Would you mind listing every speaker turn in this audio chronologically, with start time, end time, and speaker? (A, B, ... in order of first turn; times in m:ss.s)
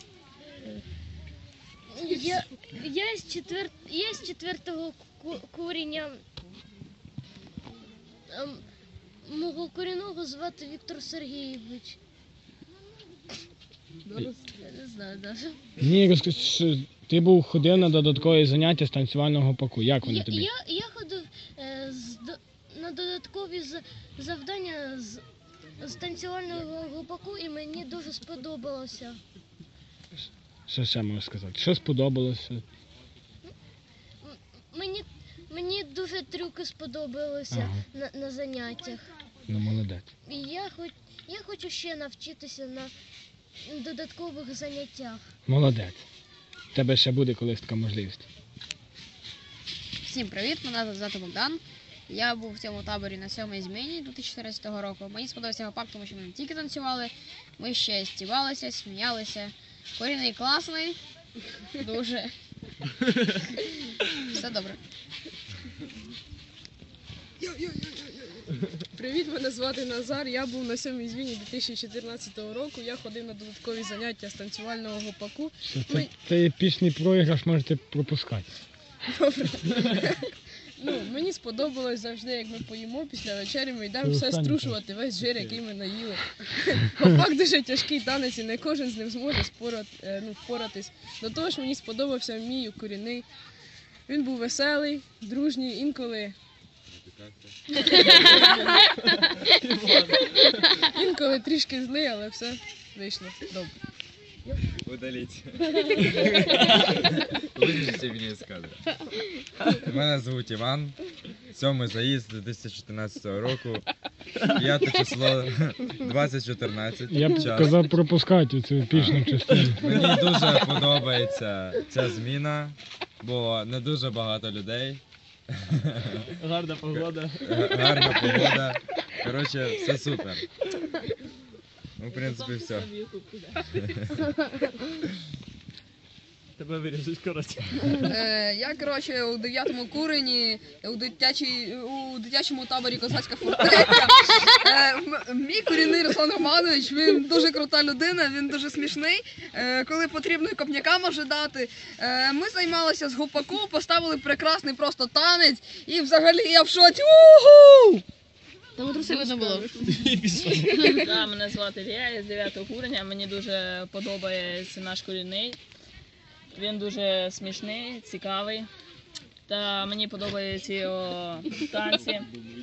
0:01.9-0:06.2 A
0:08.3-0:08.6 A
0:09.2-0:12.0 A
0:14.6-0:15.6 A
0:15.8-0:20.5 B
0:20.0-0:25.2 A
0:25.8-0:29.2 A
0:30.7-0:32.6 B
0:34.2-0:39.1 A
0:37.5-0:37.8 B
0:39.5-0:40.1 B
0:40.2-0:42.9 A
0:43.6-0:45.3 A
0:45.5-0:46.1 B
0:46.7-0:48.3 B
0:50.0-1:01.0 C
1:01.8-1:02.3 C
1:04.3-1:04.8 C
1:07.4-1:08.4 D
1:09.0-1:16.1 D
1:15.6-1:18.5 B
1:19.2-1:20.2 D
1:20.8-1:33.3 D
1:24.0-1:24.8 B
1:34.1-1:36.4 D
1:36.9-1:37.5 E
1:37.8-1:38.5 D
1:39.6-1:40.4 F
1:40.9-1:43.7 D
1:44.8-1:46.4 E
1:47.0-1:48.8 E
1:49.8-1:51.0 E
1:51.5-1:53.8 E
1:54.6-1:57.8 E
1:57.1-1:59.8 B
1:58.9-1:59.2 E
1:59.8-2:06.3 E
2:06.4-2:07.4 F
2:06.9-2:10.4 E
2:12.0-2:12.9 E
2:12.1-2:13.8 G
2:13.8-2:14.0 E
2:16.6-2:17.8 F
2:18.0-2:38.0 H
2:39.0-2:39.7 H
2:39.4-2:39.7 C
2:39.9-2:40.8 F
2:41.0-2:45.6 G
2:46.5-2:48.7 G
2:49.5-2:52.3 G